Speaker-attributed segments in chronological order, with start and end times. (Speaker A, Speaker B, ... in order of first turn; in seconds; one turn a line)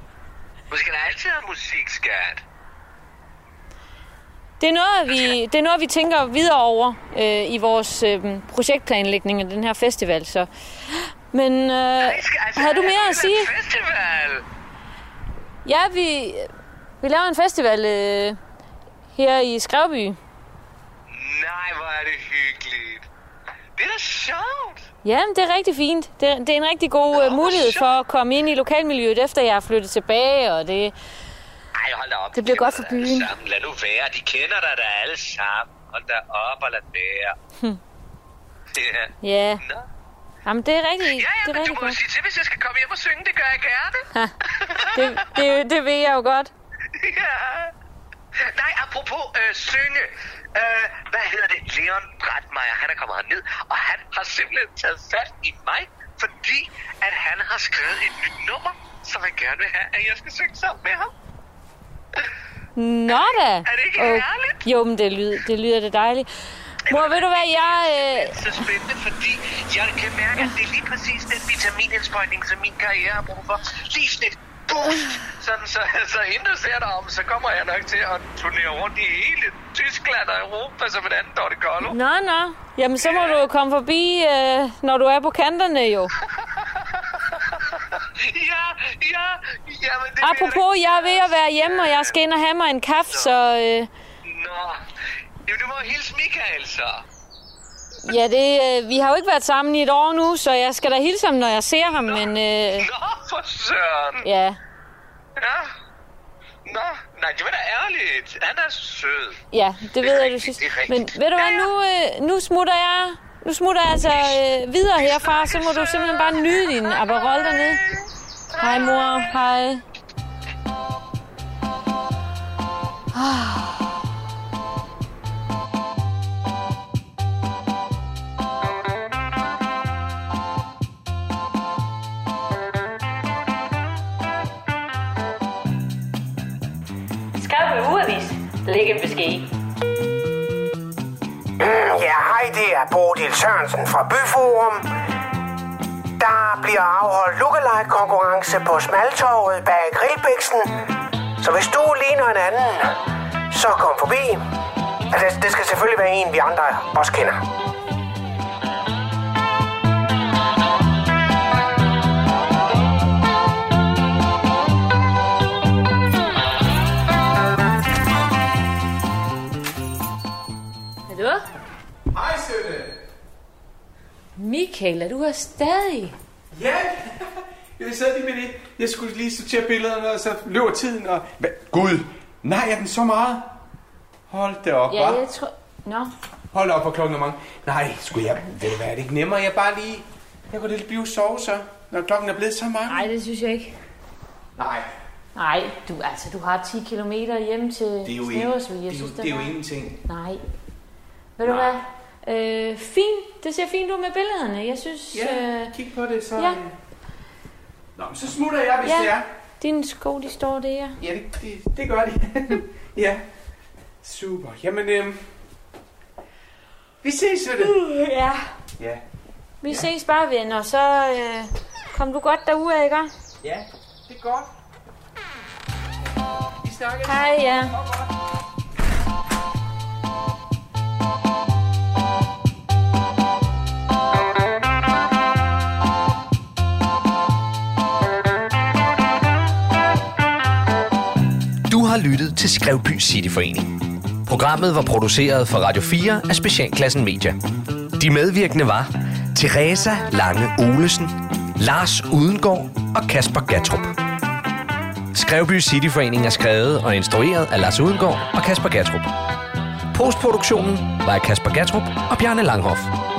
Speaker A: 0.7-2.4
Speaker B: 4.6-10.5
Speaker A: 5.1-5.3
Speaker B: 11.3-13.5
Speaker A: 12.0-14.4
Speaker B: 15.6-18.4
Speaker B: 19.1-20.2
Speaker A: 21.1-23.1
Speaker A: 23.8-24.8
Speaker B: 25.0-30.9
Speaker A: 27.1-27.9
Speaker A: 31.8-37.4
Speaker B: 32.3-33.3
Speaker A: 38.7-39.9
Speaker B: 39.2-39.6
Speaker B: 40.4-42.0
Speaker A: 41.0-45.5
Speaker B: 44.9-46.5
Speaker A: 46.9-47.7
Speaker A: 48.4-61.1
Speaker B: 62.8-66.3
Speaker A: 63.1-64.6
Speaker B: 66.9-68.4
Speaker A: 66.9-82.0
Speaker B: 81.8-86.1
Speaker A: 83.0-83.4
Speaker A: 86.4-92.2
Speaker B: 90.2-93.9
Speaker A: 93.1-93.3
Speaker A: 94.2-94.8
Speaker A: 95.5-97.0
Speaker B: 98.0-102.9
Speaker A: 102.0-104.2
Speaker B: 104.2-104.6
Speaker A: 105.4-105.7
Speaker A: 106.7-109.4
Speaker B: 109.5-117.8
Speaker A: 110.0-111.7
Speaker A: 114.0-114.4
Speaker A: 114.9-119.2
Speaker B: 118.6-119.8
Speaker B: 123.1-123.9
Speaker B: 137.4-139.5
Speaker C: 141.6-144.8
Speaker C: 146.2-150.7
Speaker C: 151.4-152.9
Speaker C: 153.5-154.4
Speaker C: 155.1-157.4
Speaker B: 171.1-171.4
Speaker D: 172.1-173.0
Speaker B: 174.4-176.1
Speaker D: 176.5-183.6
Speaker D: 184.3-185.2
Speaker B: 184.9-186.1
Speaker D: 186.5-193.0
Speaker B: 192.9-193.8
Speaker D: 194.6-194.9
Speaker B: 195.3-199.5
Speaker D: 198.0-200.0
Speaker B: 200.1-200.4
Speaker B: 201.4-205.7
Speaker D: 201.4-201.7
Speaker D: 205.1-206.7
Speaker D: 207.9-209.2
Speaker B: 208.8-211.0
Speaker D: 211.0-213.2
Speaker D: 214.0-215.3
Speaker D: 217.0-217.8
Speaker B: 217.6-218.4
Speaker B: 219.6-223.1
Speaker D: 223.4-224.5
Speaker D: 226.6-228.1
Speaker B: 227.0-227.7
Speaker E: 241.7-243.7
Speaker E: 244.2-247.4
Speaker E: 248.0-253.9
Speaker E: 255.1-259.1
Speaker E: 259.9-262.9